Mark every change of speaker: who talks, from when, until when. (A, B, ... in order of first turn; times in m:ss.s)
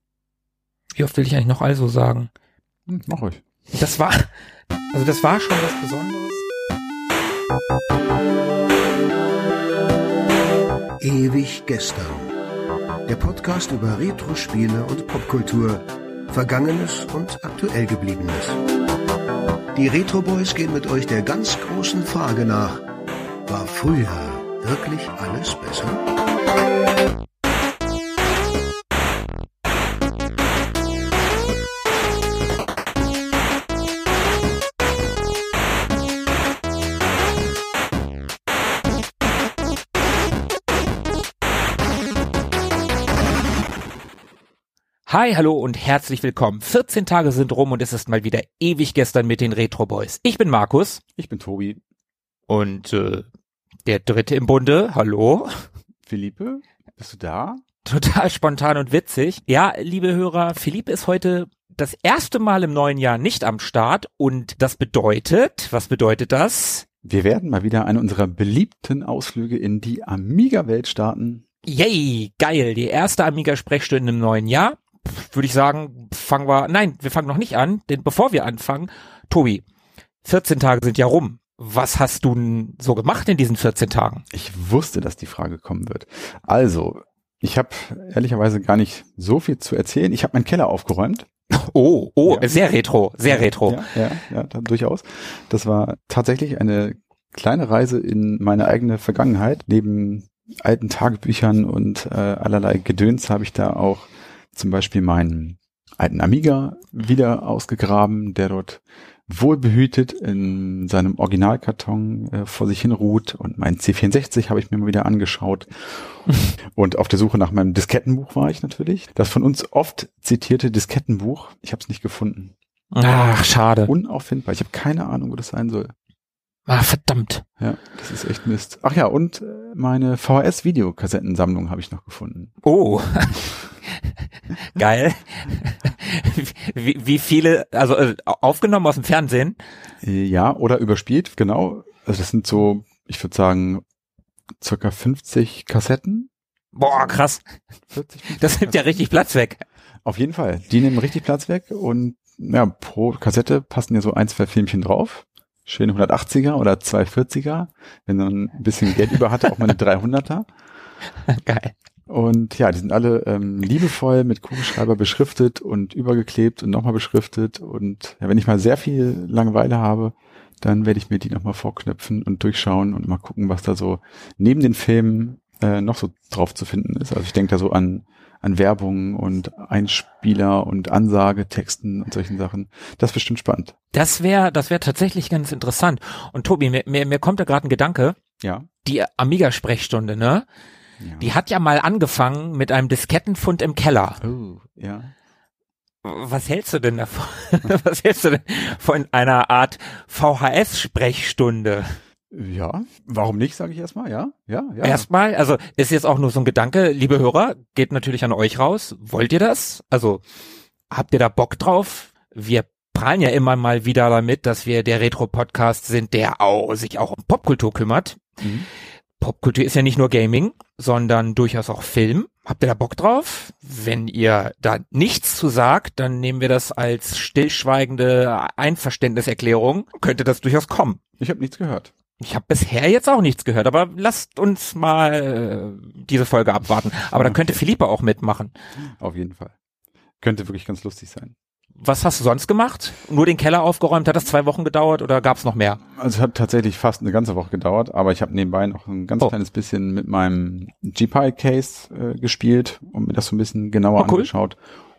0:01.0-0:02.3 A
0:02.9-0:03.4 B
0:03.7-0:04.3 A
0:04.9-0:06.4 A
0:11.0-0:12.3 C
0:13.1-0:18.6 C
0:19.8-0:22.8 C
0:23.5-0:26.0 C
0:45.1-0:51.0 A
0:51.2-0:51.8 B
0:52.5-0:53.3 A
0:53.9-0:55.5 A
0:56.1-0:57.6 B
0:57.8-1:06.9 A
1:07.0-1:11.4 B
1:11.7-1:19.6 A
1:20.2-1:24.2 A
1:24.3-1:31.3 B
1:31.5-1:33.8 A
1:33.3-2:03.2 B
2:02.9-2:03.9 A
2:03.8-2:05.9 B
2:06.7-2:07.4 A
2:07.6-2:12.5 B
2:12.6-2:14.0 A
2:14.7-2:19.6 A
2:20.0-2:23.8 B
2:24.6-2:26.3 B
2:26.8-2:27.4 A
2:27.9-2:29.0 B
2:28.3-2:29.6 A
2:30.0-2:40.5 B
2:41.3-2:41.7 A
2:42.1-3:03.7 B
3:03.9-3:08.2 A
3:08.4-3:08.7 B
3:08.8-3:10.5 A
3:11.0-3:11.3 B
3:11.2-3:14.2 A
3:14.2-3:15.1 B
3:16.0-3:22.0 A
3:22.3-3:25.1 B
3:24.8-3:30.2 A
3:30.9-3:38.3 A
3:38.4-3:38.7 B
3:39.2-3:51.0 A
3:51.2-3:51.9 B
3:52.2-3:58.5 A
3:57.1-3:57.6 B
3:58.8-3:59.5 B
4:00.2-4:01.4 B
4:01.8-4:05.8 A
4:05.9-4:14.6 B
4:14.0-4:14.3 A